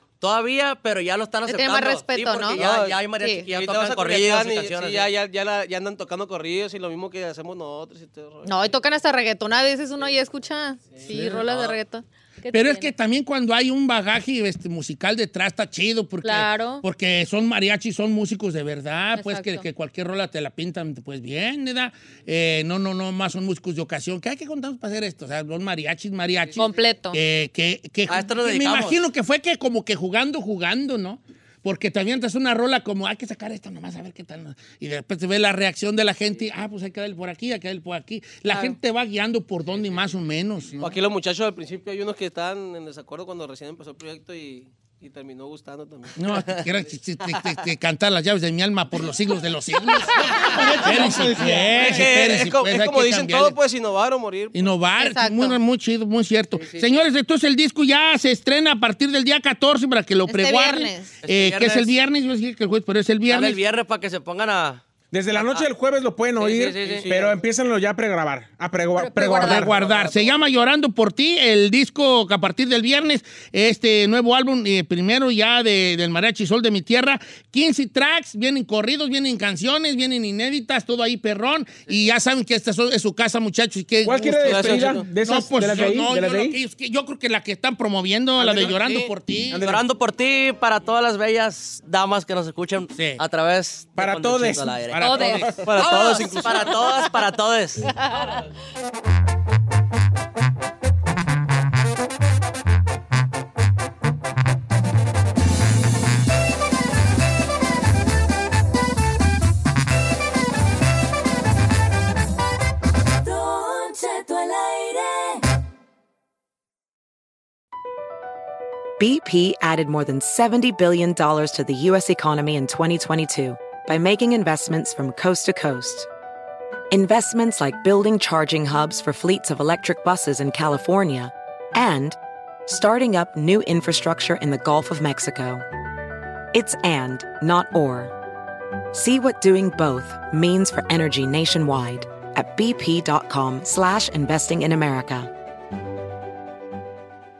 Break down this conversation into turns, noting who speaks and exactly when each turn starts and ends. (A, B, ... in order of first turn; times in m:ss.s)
0:00.2-0:05.1 A
0:01.4-0:02.6 B
0:02.5-0:08.8 C
0:03.2-0:03.5 B
0:08.4-0:12.9 B
0:10.9-0:11.7 C
0:11.3-0:11.6 A
0:12.5-0:41.0 D
0:16.2-0:16.8 B
0:19.2-0:19.6 B
0:26.6-0:27.2 B
0:28.1-0:29.0 A
0:40.8-0:46.6 C
0:46.2-0:53.6 D
0:50.4-0:50.7 C
0:51.4-0:54.7 C
0:54.5-1:03.6 D
0:55.0-0:55.6 B
1:00.3-1:01.1 B
1:01.2-1:01.9 A
1:03.2-1:05.7 A
1:05.1-1:09.8 E
1:06.4-1:07.1 A
1:07.0-1:07.4 C
1:09.0-1:09.7 B
1:09.4-1:29.6 D
1:09.8-1:10.3 C
1:24.0-1:26.6 E
1:24.4-1:25.0 C
1:28.4-1:29.0 E
1:29.5-1:29.8 E
1:29.5-1:35.2 A
1:32.9-1:33.2 D
1:34.0-1:34.8 E
1:34.9-1:35.6 D
1:35.0-1:36.2 B
1:35.6-1:36.8 C
1:35.8-1:37.9 A
1:37.9-1:38.4 B
1:53.2-1:55.4 F
1:59.0-2:06.1 G
2:06.9-2:15.6 G
2:16.5-2:18.1 G
2:18.9-2:25.3 G